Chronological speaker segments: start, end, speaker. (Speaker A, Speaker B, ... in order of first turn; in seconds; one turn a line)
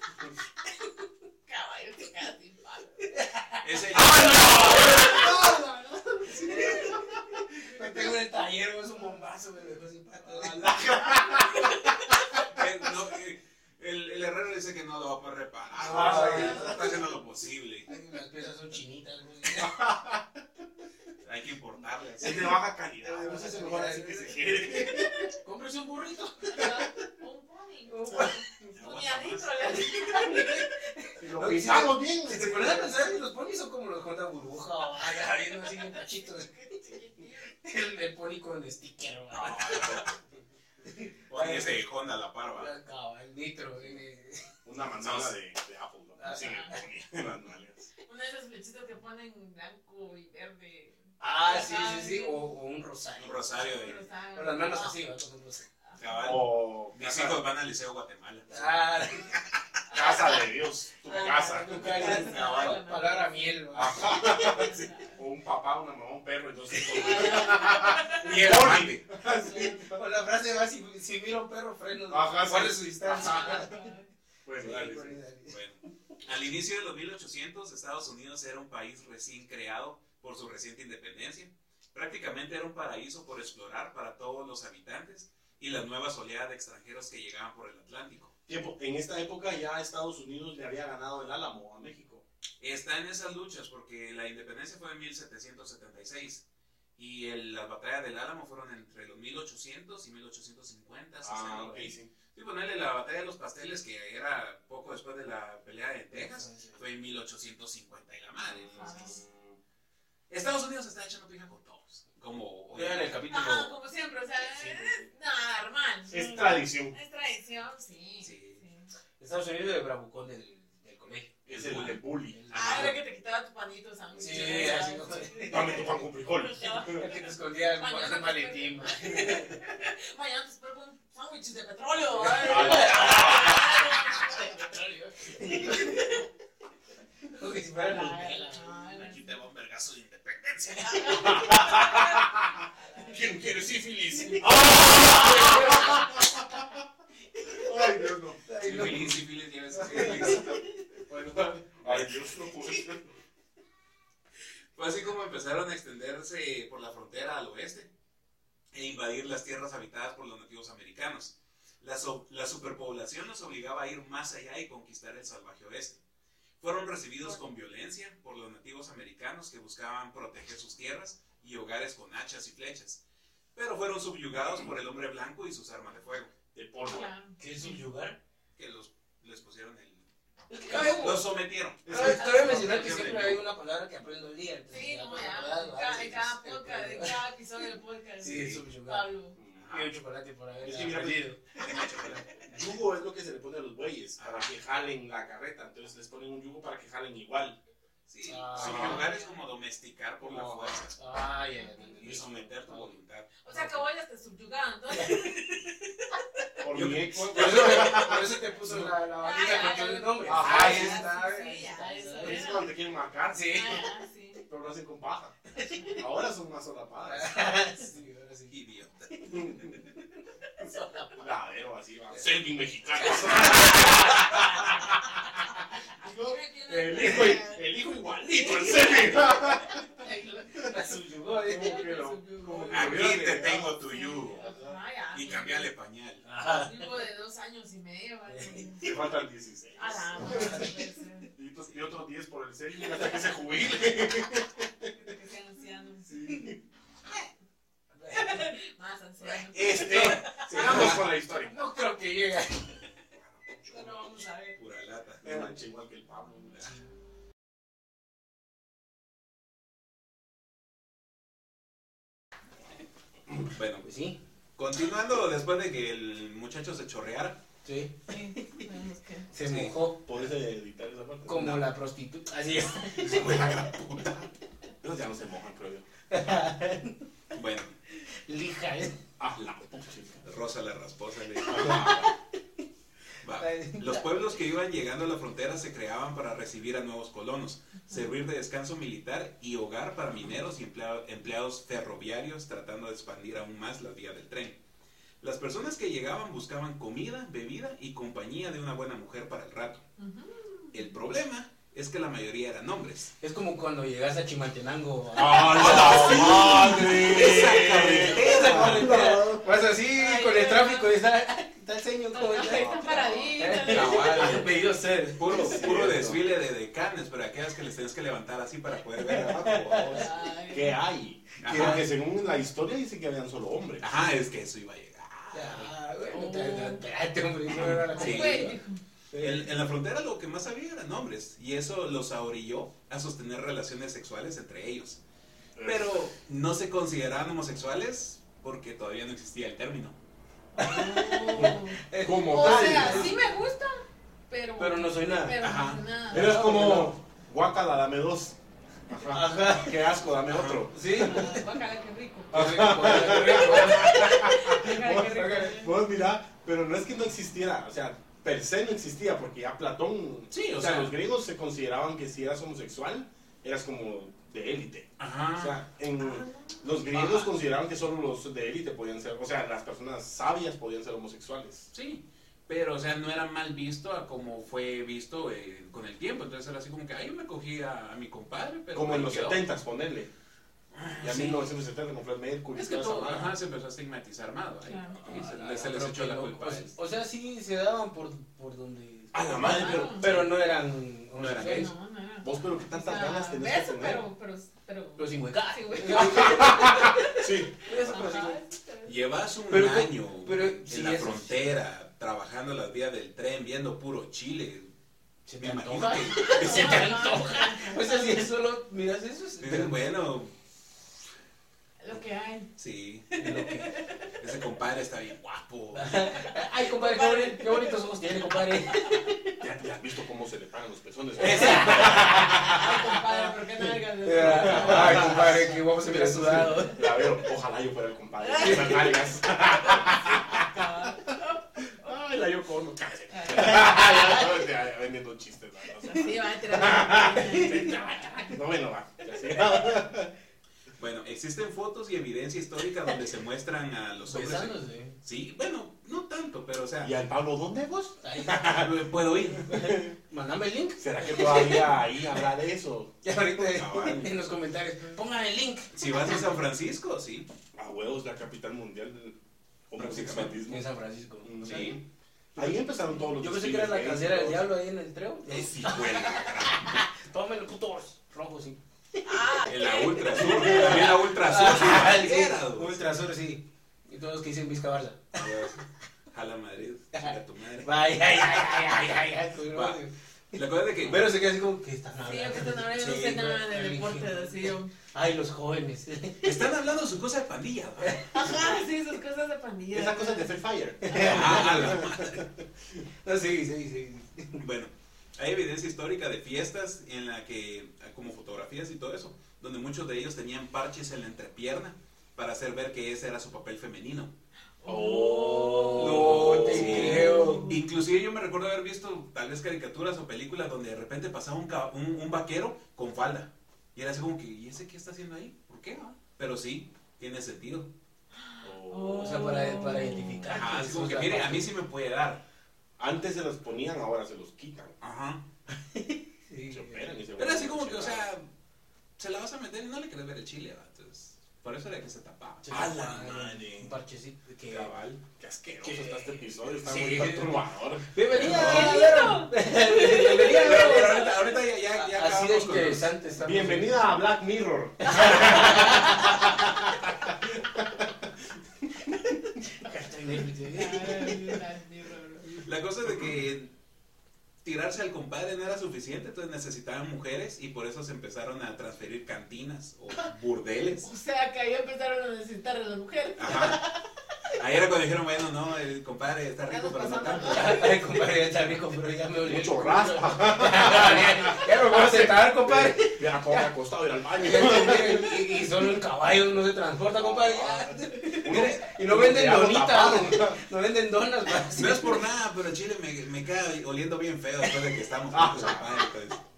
Speaker A: 1.5-3.1
Speaker B: 3.1-5.2
Speaker C: 3.6-4.9
Speaker D: 3.9-7.0
Speaker A: 4.5-5.6
Speaker A: 6.2-7.2
Speaker B: 6.3-10.9
Speaker D: 10.3-11.7
Speaker A: 11.1-11.7
Speaker C: 12.5-17.9
Speaker B: 15.8-17.1
Speaker D: 15.9-16.8
Speaker A: 16.4-16.8
Speaker B: 17.9-19.8
Speaker D: 19.5-20.3
Speaker C: 21.2-22.6
Speaker D: 22.2-25.3
Speaker B: 23.0-26.8
Speaker A: 26.5-30.6
Speaker B: 27.9-28.4
Speaker C: 28.8-29.5
Speaker B: 29.8-36.6
Speaker D: 31.2-33.2
Speaker A: 36.4-37.5
Speaker B: 37.5-40.1
Speaker C: 39.3-40.1
Speaker D: 39.6-40.1
Speaker B: 40.8-41.8
Speaker C: 41.3-42.7
Speaker B: 42.5-44.5
Speaker D: 44.6-47.9
Speaker C: 45.0-45.3
Speaker B: 46.2-46.6
Speaker A: 48.1-52.4
Speaker B: 51.2-53.5
Speaker C: 53.2-54.0
Speaker A: 53.5-55.0
Speaker B: 54.4-55.7
Speaker C: 56.0-59.3
Speaker D: 56.2-57.4
Speaker B: 58.5-59.4
Speaker D: 59.9-62.3
Speaker A: 61.1-65.2
Speaker B: 61.1-64.5
Speaker C: 62.2-62.8
Speaker D: 63.7-70.0
Speaker B: 66.9-67.5
Speaker A: 66.9-68.2
Speaker C: 68.0-69.0
Speaker B: 68.1-68.8
Speaker B: 69.5-73.9
Speaker D: 72.1-73.6
Speaker A: 73.1-74.1
Speaker D: 74.5-75.2
Speaker C: 74.6-88.3
Speaker B: 74.6-75.6
Speaker D: 88.5-92.2
Speaker C: 92.6-96.5
Speaker C: 97.0-108.9
Speaker D: 101.2-102.1
Speaker B: 106.2-106.8
Speaker D: 108.4-109.6
Speaker A: 108.8-109.2
Speaker C: 110.3-113.3
Speaker B: 112.7-113.7
Speaker A: 113.3-118.9
Speaker D: 114.6-115.0
Speaker D: 116.1-117.0
Speaker C: 118.2-118.6
Speaker B: 119.2-122.9
Speaker D: 121.5-122.4
Speaker C: 121.5-122.0
Speaker A: 122.5-134.7
Speaker C: 122.5-122.9
Speaker B: 124.1-126.0
Speaker D: 125.5-127.0
Speaker B: 126.8-129.5
Speaker B: 132.3-136.2
Speaker D: 132.3-133.9
Speaker A: 135.4-136.2
Speaker B: 137.3-138.9
Speaker A: 137.8-139.3
Speaker C: 138.9-141.6
Speaker A: 140.8-143.7
Speaker D: 141.2-142.3
Speaker D: 143.0-146.3
Speaker B: 144.1-146.2
Speaker A: 145.3-146.2
Speaker B: 147.4-149.2
Speaker D: 147.5-148.5
Speaker C: 148.6-150.6
Speaker B: 149.8-150.7
Speaker D: 149.9-153.1
Speaker C: 151.8-152.2
Speaker C: 154.8-157.9
Speaker C: 158.7-166.0
Speaker C: 166.6-173.0
Speaker C: 173.6-176.3
Speaker D: 176.5-177.1
Speaker A: 176.9-177.8
Speaker B: 177.4-178.2
Speaker C: 178.6-180.1
Speaker B: 180.5-181.3
Speaker C: 180.7-183.4
Speaker D: 181.9-182.7
Speaker B: 181.9-187.2
Speaker A: 182.4-182.9
Speaker A: 184.7-189.4
Speaker B: 188.2-189.1
Speaker C: 188.2-188.6
Speaker D: 189.3-189.7
Speaker C: 189.6-189.9
Speaker B: 189.7-192.2
Speaker D: 190.6-197.6
Speaker C: 191.7-192.2
Speaker C: 194.2-194.5
Speaker C: 198.1-201.0
Speaker B: 198.2-199.1
Speaker D: 198.5-199.1
Speaker A: 198.8-199.4
Speaker D: 200.2-200.8
Speaker B: 201.0-203.0
Speaker A: 201.6-202.2
Speaker C: 202.0-203.8
Speaker A: 203.4-206.2
Speaker B: 205.0-205.2
Speaker D: 206.6-209.0
Speaker C: 206.7-208.1
Speaker B: 207.3-212.6
Speaker A: 209.2-212.7
Speaker D: 210.2-211.1
Speaker C: 210.3-211.1
Speaker D: 212.1-213.7
Speaker B: 213.3-213.9
Speaker A: 213.4-214.4
Speaker D: 214.5-215.3
Speaker B: 215.5-216.0
Speaker A: 215.7-216.0
Speaker D: 215.9-217.3
Speaker B: 217.0-218.6
Speaker C: 218.5-219.6
Speaker B: 219.1-221.3
Speaker D: 219.3-219.8
Speaker D: 221.1-224.9
Speaker B: 223.0-224.7
Speaker D: 226.0-229.8
Speaker A: 226.0-227.7
Speaker B: 226.9-227.4
Speaker B: 228.3-232.0
Speaker D: 231.4-234.8
Speaker A: 231.5-233.2
Speaker C: 232.7-234.4
Speaker A: 233.8-235.7
Speaker C: 235.1-236.2
Speaker B: 236.2-236.9
Speaker A: 236.4-239.0
Speaker B: 238.3-238.7
Speaker D: 238.8-240.7
Speaker A: 239.8-241.3
Speaker B: 240.2-240.6
Speaker D: 241.3-244.9
Speaker A: 244.8-246.3
Speaker D: 246.1-246.6
Speaker B: 248.0-248.5
Speaker A: 248.1-250.7
Speaker D: 249.2-251.6
Speaker B: 249.6-252.8
Speaker C: 250.7-251.1
Speaker D: 253.2-254.0
Speaker A: 253.7-254.6
Speaker C: 254.6-255.6
Speaker D: 255.2-256.7
Speaker C: 263.5-263.9
Speaker B: 263.8-264.2
Speaker C: 264.6-267.4
Speaker B: 267.6-268.6
Speaker A: 268.1-269.3
Speaker B: 269.3-270.0
Speaker C: 269.4-269.8
Speaker D: 270.0-271.6
Speaker B: 271.3-273.6
Speaker C: 273.0-274.3
Speaker D: 274.8-275.9
Speaker B: 276.1-277.0
Speaker C: 277.3-277.8
Speaker B: 278.0-279.0
Speaker D: 279.2-280.2
Speaker C: 280.2-282.1
Speaker D: 281.4-282.1
Speaker B: 281.5-282.1
Speaker C: 283.2-294.6
Speaker B: 283.3-284.1
Speaker C: 295.2-299.8
Speaker A: 300.0-300.8
Speaker C: 300.7-303.1
Speaker B: 303.2-315.7
Speaker D: 305.1-309.4
Speaker C: 305.5-308.9
Speaker A: 309.9-310.9
Speaker A: 312.1-314.6
Speaker D: 312.4-313.6
Speaker C: 313.6-314.6
Speaker C: 315.2-319.6
Speaker D: 315.2-316.2
Speaker B: 319.0-320.1
Speaker D: 319.1-323.9
Speaker A: 319.9-320.8
Speaker C: 321.4-321.9
Speaker B: 321.4-321.9
Speaker C: 323.8-325.7
Speaker B: 325.3-328.6
Speaker A: 326.1-326.9
Speaker C: 327.5-328.5
Speaker A: 327.9-328.8
Speaker B: 329.1-329.5
Speaker C: 329.2-335.0
Speaker D: 335.6-336.1
Speaker C: 335.6-340.0
Speaker B: 340.6-343.2
Speaker A: 340.6-346.4
Speaker D: 341.4-343.1
Speaker C: 342.8-343.1
Speaker B: 344.6-345.4
Speaker C: 345.4-345.8
Speaker D: 346.1-348.4
Speaker B: 346.1-346.9
Speaker D: 348.9-351.4
Speaker B: 349.1-349.8
Speaker C: 350.3-350.6
Speaker B: 350.7-351.5
Speaker A: 351.0-355.7
Speaker B: 352.3-354.1
Speaker D: 352.3-371.7
Speaker C: 360.3-360.9
Speaker C: 365.0-365.6
Speaker A: 366.0-366.6
Speaker C: 366.9-367.3
Speaker C: 371.7-379.4
Speaker D: 378.7-380.1
Speaker C: 380.7-381.5
Speaker D: 381.0-383.4
Speaker C: 382.5-386.8
Speaker A: 384.6-385.0
Speaker B: 385.1-391.7
Speaker D: 389.1-390.2
Speaker A: 389.3-390.1
Speaker C: 391.2-391.7
Speaker A: 391.4-399.0
Speaker D: 392.2-394.0
Speaker B: 395.0-398.4
Speaker D: 396.1-398.1
Speaker C: 398.8-404.7
Speaker B: 399.5-401.3
Speaker B: 405.3-409.8
Speaker C: 405.4-407.0
Speaker A: 406.1-408.2
Speaker C: 409.4-410.3
Speaker A: 411.8-412.5
Speaker C: 412.6-413.3
Speaker A: 413.1-414.1
Speaker B: 413.2-413.7
Speaker C: 414.2-416.1
Speaker B: 415.7-419.4
Speaker A: 416.1-417.9
Speaker A: 418.7-419.1
Speaker D: 419.4-423.1
Speaker B: 421.2-422.6
Speaker C: 421.2-421.9
Speaker A: 421.3-426.7
Speaker B: 424.0-426.8
Speaker D: 424.2-430.7
Speaker C: 424.4-425.1
Speaker A: 428.2-431.7
Speaker B: 428.4-428.9
Speaker D: 431.6-440.1
Speaker A: 433.1-434.2
Speaker B: 433.4-434.0
Speaker A: 435.8-438.4
Speaker B: 437.2-438.3
Speaker A: 439.2-439.6
Speaker C: 440.8-447.1
Speaker B: 444.1-445.0
Speaker D: 446.8-448.8
Speaker B: 448.0-448.6
Speaker C: 448.4-449.8
Speaker D: 449.5-449.9
Speaker B: 449.5-451.8
Speaker D: 450.8-453.1
Speaker B: 453.0-456.2
Speaker C: 453.3-454.2
Speaker C: 455.7-457.3
Speaker D: 457.6-459.2
Speaker D: 459.7-460.6
Speaker C: 459.8-460.4
Speaker B: 460.5-461.7
Speaker D: 461.2-461.8
Speaker C: 461.4-461.8
Speaker D: 462.4-464.5
Speaker B: 463.2-469.4
Speaker C: 465.3-466.8
Speaker A: 469.1-470.9
Speaker C: 469.4-472.7
Speaker B: 470.2-475.2
Speaker C: 475.1-478.7
Speaker B: 476.9-486.4
Speaker C: 479.5-479.8
Speaker C: 480.3-481.1
Speaker A: 482.0-484.7
Speaker C: 486.2-488.5
Speaker B: 487.8-488.1
Speaker A: 488.1-490.3
Speaker D: 489.7-492.4
Speaker B: 490.8-491.8
Speaker C: 491.0-492.3
Speaker B: 493.0-494.4
Speaker C: 494.4-504.1
Speaker A: 504.6-507.6
Speaker D: 504.6-507.2
Speaker B: 505.1-507.5
Speaker C: 505.7-517.7
Speaker A: 518.2-520.3
Speaker D: 518.4-519.4
Speaker B: 519.0-521.5
Speaker C: 520.3-522.2
Speaker D: 522.8-524.8
Speaker C: 524.8-525.2
Speaker B: 525.5-527.0
Speaker D: 526.5-528.1
Speaker C: 527.2-528.3
Speaker C: 529.0-532.9
Speaker B: 532.4-534.7
Speaker D: 532.5-533.7
Speaker C: 534.5-535.0
Speaker D: 535.2-538.7
Speaker B: 535.6-541.1
Speaker C: 538.1-538.9
Speaker A: 538.1-541.2
Speaker C: 540.2-542.9
Speaker B: 541.7-543.9
Speaker D: 543.2-548.1
Speaker B: 544.9-546.1
Speaker A: 544.9-546.2
Speaker B: 548.9-551.4
Speaker A: 550.5-552.4
Speaker C: 552.4-553.5
Speaker C: 554.4-560.9
Speaker A: 560.8-563.9
Speaker C: 563.2-563.7
Speaker C: 564.4-567.7
Speaker A: 566.5-567.7
Speaker B: 567.2-573.5
Speaker D: 569.2-575.4
Speaker B: 574.2-582.0
Speaker D: 576.9-580.5
Speaker C: 581.5-586.2
Speaker D: 585.1-585.9